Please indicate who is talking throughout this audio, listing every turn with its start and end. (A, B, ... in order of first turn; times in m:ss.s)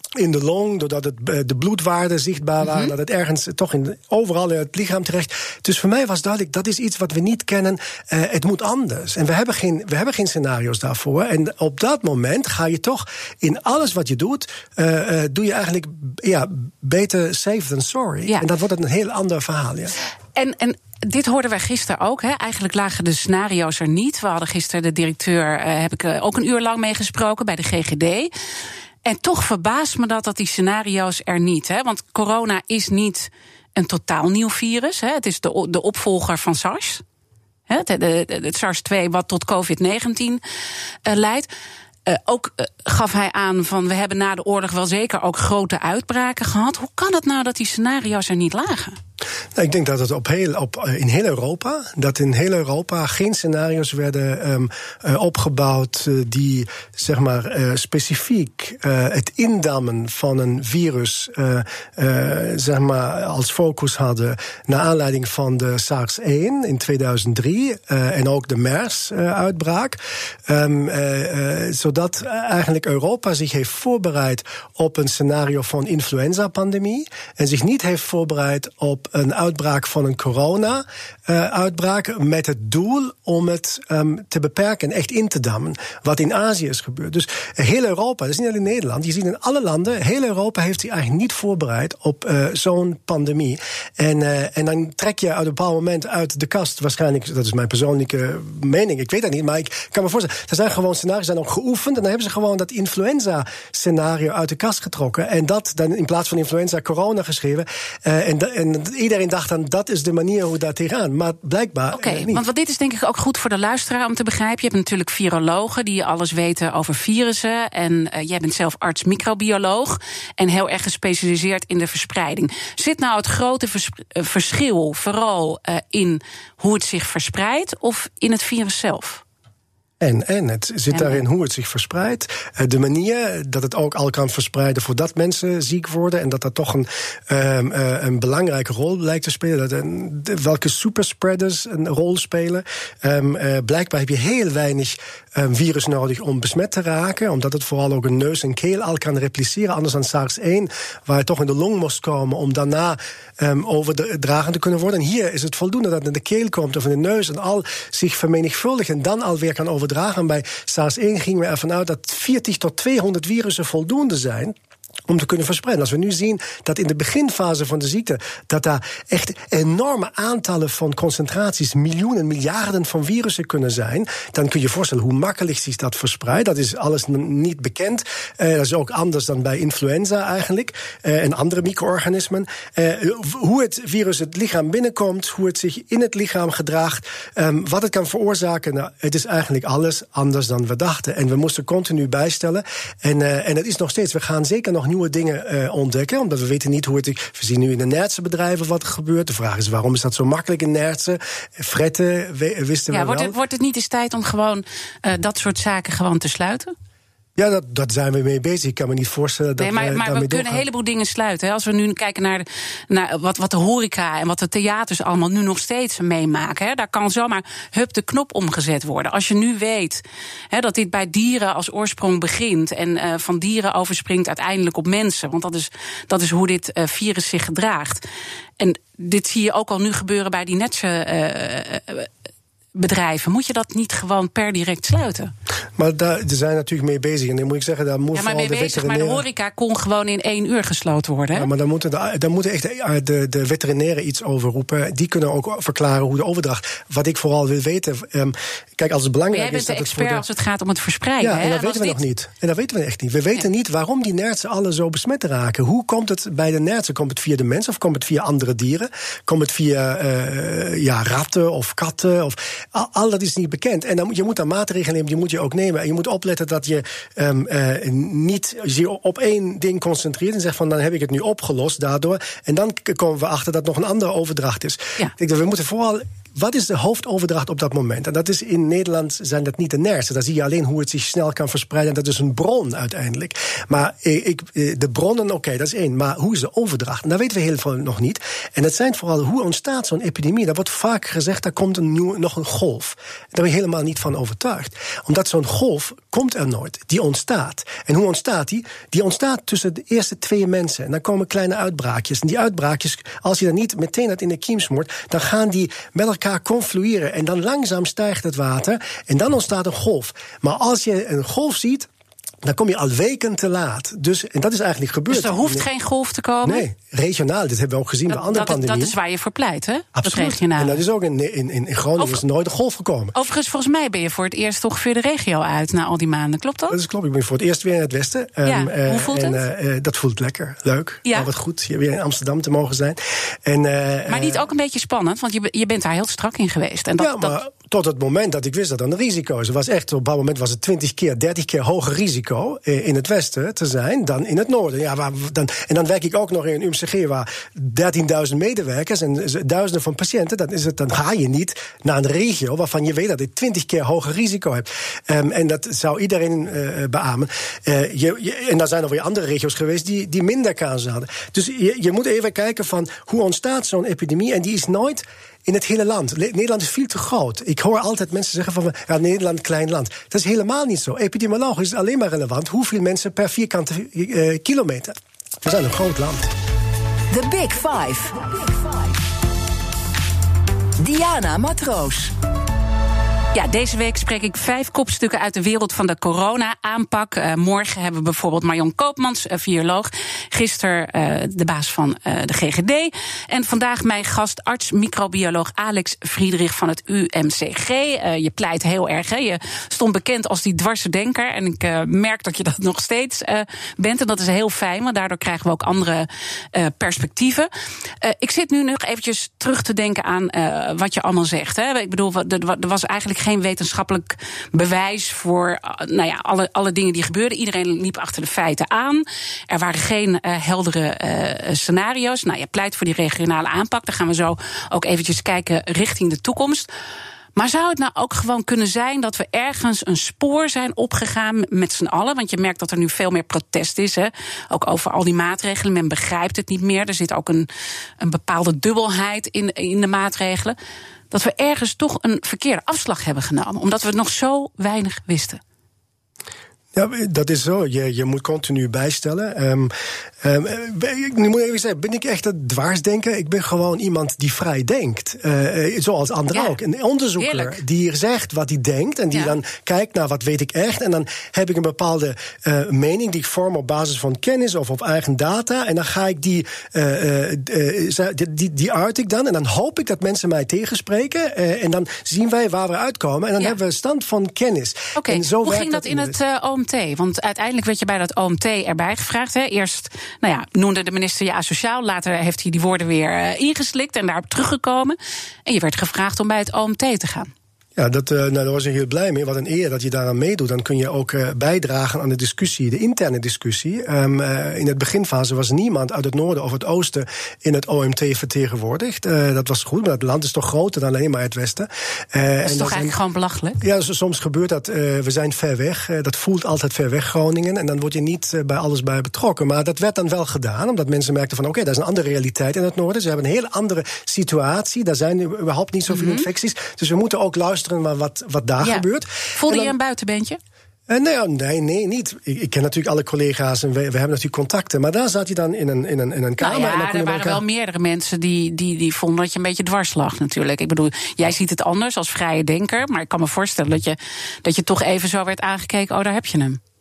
0:00.2-0:20.0 A
0:02.6-0:02.9 B
0:20.4-0:28.3 B
0:29.0-0:37.0 B
0:37.7-0:40.4 B
0:41.0-0:41.5 B
0:42.0-0:49.0 B
0:49.5-1:52.4 A
1:51.9-2:09.2 B
2:10.0-2:44.5 A
2:10.9-2:11.2 B
2:45.1-3:23.3 A
3:22.9-3:26.7 B
3:27.4-3:30.6 A
3:29.6-3:48.0 B
3:48.6-3:52.1 B
3:52.7-3:55.3 B
3:55.8-3:59.2 A
3:58.1-4:01.5 B
4:01.3-4:10.2 A
4:09.3-4:12.0 B
4:11.2-5:11.9 A
5:12.4-5:15.7 A
5:15.1-5:16.6 B
5:16.4-5:19.0 A
5:18.1-5:20.8 B
5:19.9-5:23.1 A
5:23.1-5:26.8 B
5:26.7-5:34.4 A
5:28.4-5:29.4 B
5:34.1-5:37.4 B
5:37.0-6:16.3 A
6:17.1-6:19.0 C
6:20.8-6:22.1 C
6:23.3-6:47.5 B
6:48.0-7:06.7 B
7:07.4-7:17.5 B
7:18.0-7:20.6 B
7:21.1-7:25.4 B
7:26.7-7:56.2 A
7:36.3-7:36.6 B
7:37.2-7:37.6 B
7:55.0-8:07.3 B
8:07.8-8:23.0 A
8:22.4-8:23.6 B
8:23.6-8:39.7 A
8:35.9-8:36.3 B
8:38.6-8:40.4 B
8:40.9-8:47.4 A
8:46.4-8:56.6 B